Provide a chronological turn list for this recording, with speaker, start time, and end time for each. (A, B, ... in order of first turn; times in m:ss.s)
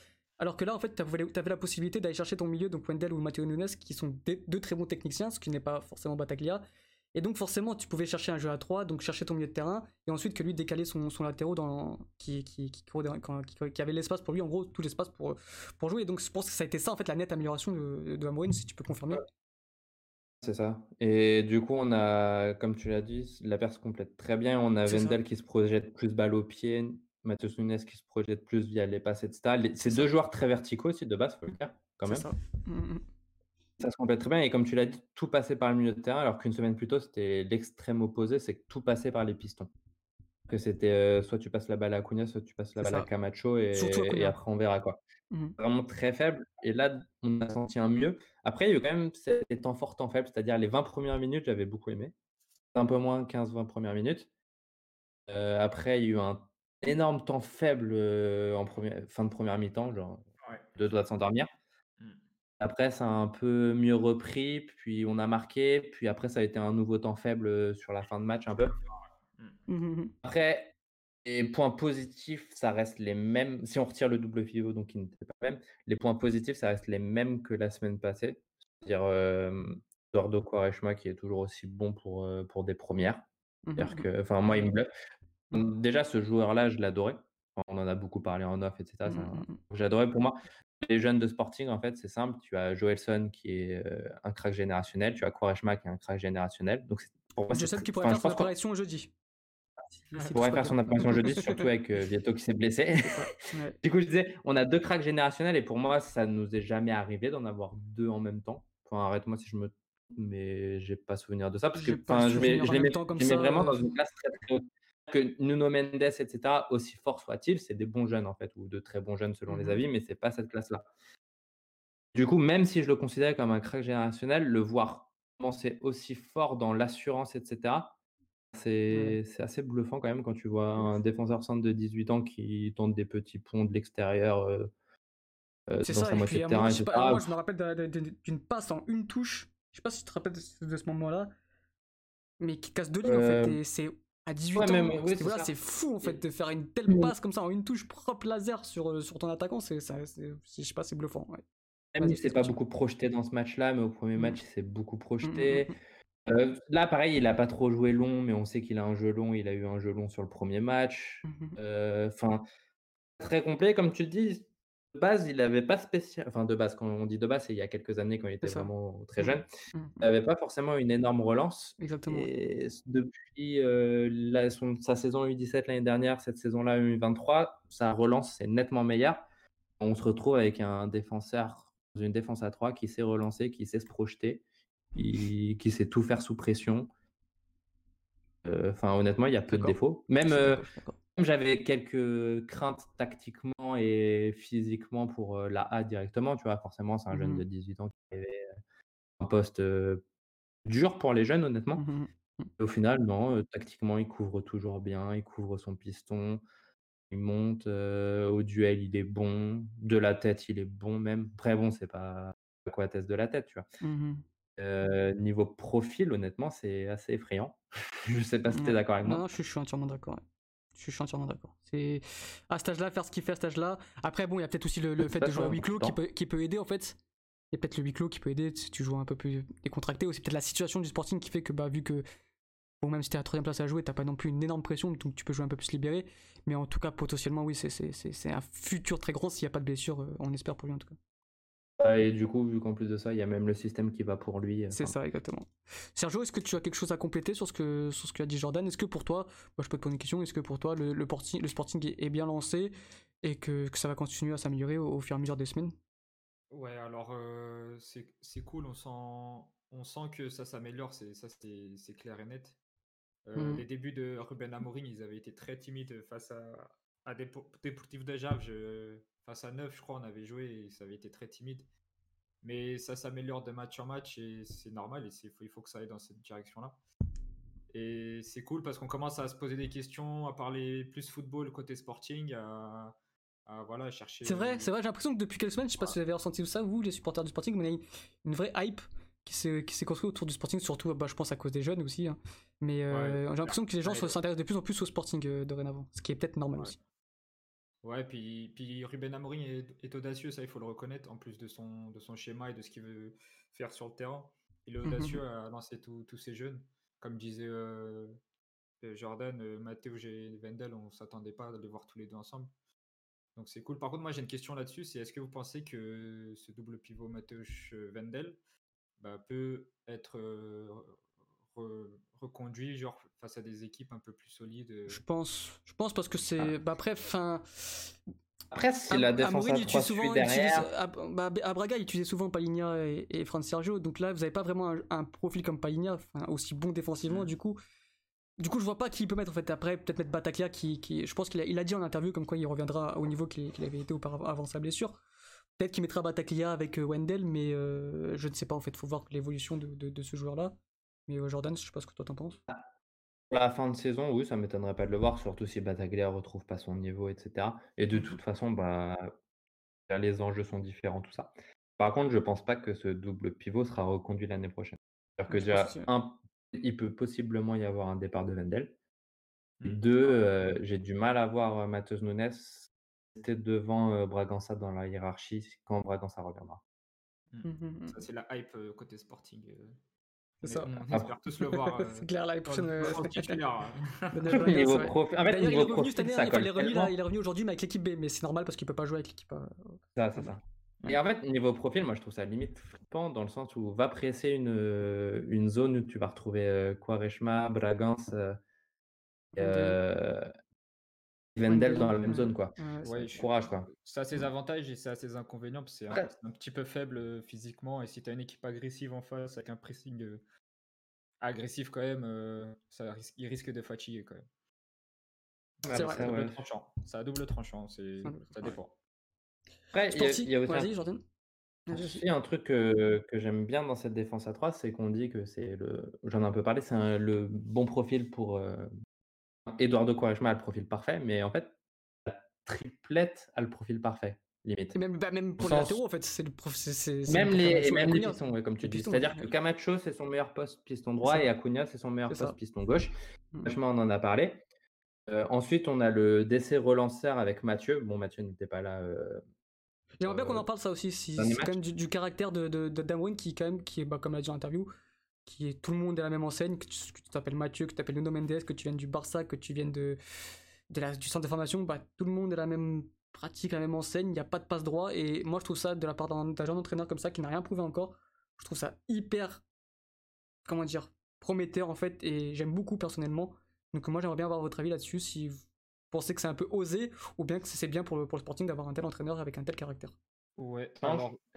0:00.4-0:06.6 A
0:07.2-0:19.2 A
0:20.4-0:32.3 B
0:24.8-0:25.2 A
0:32.1-0:33.0 A
0:33.8-0:39.7 B
0:40.5-0:45.0 B
0:42.8-0:43.1 A
0:43.7-0:44.4 A
0:45.3-0:45.6 A
0:45.6-0:52.1 B
0:52.8-0:54.3 B
0:55.3-1:00.2 B
1:00.4-1:00.7 C
1:00.8-1:01.5 B
1:02.6-1:08.8 B
1:09.7-1:10.2 A
1:10.2-1:10.7 B
1:11.2-1:23.3 B
1:23.7-1:24.7 A
1:23.8-1:24.9 B
1:25.5-1:38.5 B
1:29.1-1:29.6 A
1:37.5-1:39.1 A
1:40.1-1:41.7 A
1:40.3-1:43.3 B
1:43.0-1:43.8 A
1:43.8-2:00.8 B
1:51.7-1:53.9 A
1:59.5-1:59.8 A
2:02.1-2:07.9 B
2:08.5-2:14.7 B
2:08.9-2:09.2 A
2:15.7-2:17.3 B
2:15.8-2:21.3 A
2:22.4-2:31.4 A
2:23.0-2:23.6 B
2:24.5-2:25.5 B
2:31.9-2:35.7 B
2:32.0-2:32.6 A
2:35.2-2:35.8 A
2:36.3-2:42.4 B
2:41.2-2:41.6 A
2:43.2-2:49.5 B
2:48.4-2:50.0 A
2:50.0-2:59.2 B
2:51.8-2:52.3 A
2:59.8-3:04.4 B
3:05.0-3:06.9 B
3:08.4-3:10.6 B
3:09.5-3:11.0 A
3:11.2-3:18.5 B
3:17.1-3:17.4 A
3:19.2-3:20.0 B
3:20.7-3:21.8 B
3:21.8-3:22.5 A
3:22.6-3:26.4 B
3:27.1-3:33.7 B
3:33.8-3:34.2 A
3:34.6-3:39.2 B
3:38.5-3:40.2 A
3:40.8-3:47.0 A
3:45.1-3:46.0 B
3:47.5-3:52.0 A
3:52.8-4:01.0 A
4:01.8-4:04.9 B
4:04.7-4:15.8 A
4:16.5-4:22.6 C
4:23.2-4:31.7 C
4:23.4-4:23.6 A
4:32.4-4:36.8 C
4:37.7-4:42.9 C
4:43.5-4:44.7 C
4:44.2-4:56.8 A
4:52.9-4:54.1 C
4:57.8-5:08.2 C
5:04.8-5:05.2 A
5:08.8-5:12.5 C
5:13.4-5:18.4 C
5:19.0-5:21.0 C
5:21.5-5:25.0 C
5:24.9-5:27.9 A
5:28.5-5:30.7 B
5:28.9-5:37.6 A
5:37.1-5:37.3 C
5:38.4-5:45.0 A
5:45.6-5:52.4 A
5:53.3-5:59.1 B
5:59.9-6:08.7 B
6:05.3-6:05.9 A
6:09.6-6:10.5 C
6:09.7-6:16.6 B
6:17.3-6:19.8 C
6:17.4-6:18.1 A
6:20.4-6:23.4 A
6:20.4-6:24.6 C
6:24.1-6:30.4 A
6:24.3-6:26.9 B
6:30.0-6:38.4 B
6:39.4-6:39.8 A
6:39.4-6:40.3 B
6:41.4-6:42.6 B
6:41.5-6:43.2 A
6:42.8-6:50.2 C
6:43.2-6:43.7 B
6:51.2-6:54.3 C
6:55.6-6:58.7 C
6:55.7-6:56.4 B
6:55.7-6:56.1 A
6:58.0-6:58.6 A
6:59.7-7:00.7 B
6:59.9-7:01.0 A
7:01.7-7:08.7 B
7:01.7-7:02.0 A
7:09.5-7:11.5 B
7:12.1-7:14.8 B
7:14.7-7:19.3 A
7:15.4-7:15.8 B
7:17.1-7:22.9 B
7:22.1-7:22.4 A
7:23.4-7:24.4 B
7:25.1-7:29.2 B
7:30.0-7:34.7 A
7:30.0-7:30.5 B
7:31.2-7:31.6 B
7:35.3-7:40.0 A
7:40.7-7:49.4 A
7:50.4-8:00.0 A
8:00.4-8:01.2 C
8:00.8-8:01.1 B